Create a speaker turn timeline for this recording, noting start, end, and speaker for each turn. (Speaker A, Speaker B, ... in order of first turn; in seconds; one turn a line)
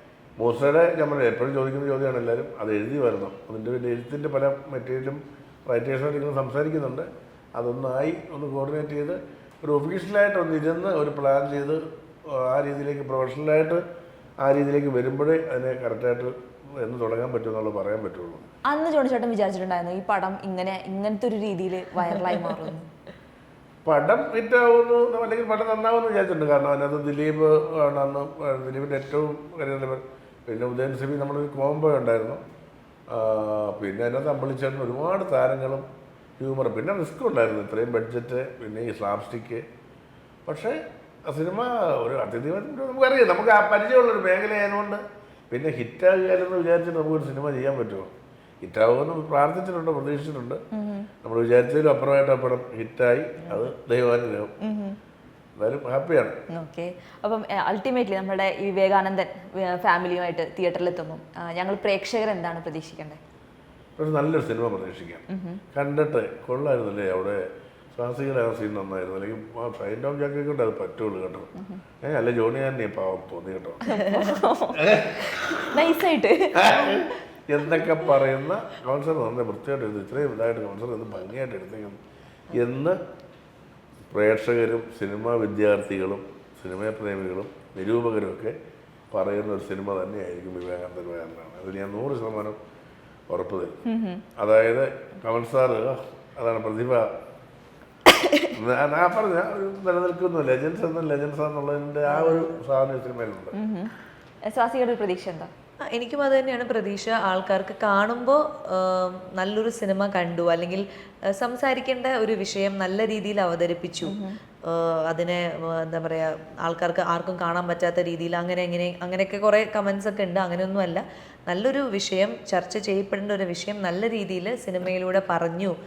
Speaker A: 0.4-13.8
Speaker A: 14.4-18.4
Speaker B: 18.6-22.9
Speaker A: 23.9-32.4
Speaker A: 33.1-35.9
Speaker A: 36.4-39.6
Speaker A: 40.5-48.1
Speaker A: 48.6-50.6
Speaker B: 50.7-51.1
Speaker A: 51.2-54.5
Speaker B: 54.6-55.0
Speaker A: 55.6-56.4
Speaker B: 56.5-63.2
Speaker A: 64.0-71.5
Speaker B: 65.3-65.6
Speaker B: 71.6-71.8
Speaker A: 72.0-74.0
Speaker B: 73.8-77.1
Speaker A: 74.8-75.8
Speaker A: 76.5-82.0
Speaker A: 82.5-83.0
Speaker A: 84.1-88.6
Speaker A: 89.1-92.6
Speaker A: 93.3-93.8
Speaker B: 93.9-94.2
Speaker A: 94.4-97.1
Speaker A: 98.5-103.5
Speaker B: 102.1-102.6
Speaker B: 103.5-103.9
Speaker B: 104.5-105.5
Speaker C: 105.9-125.7
Speaker B: 114.0-114.4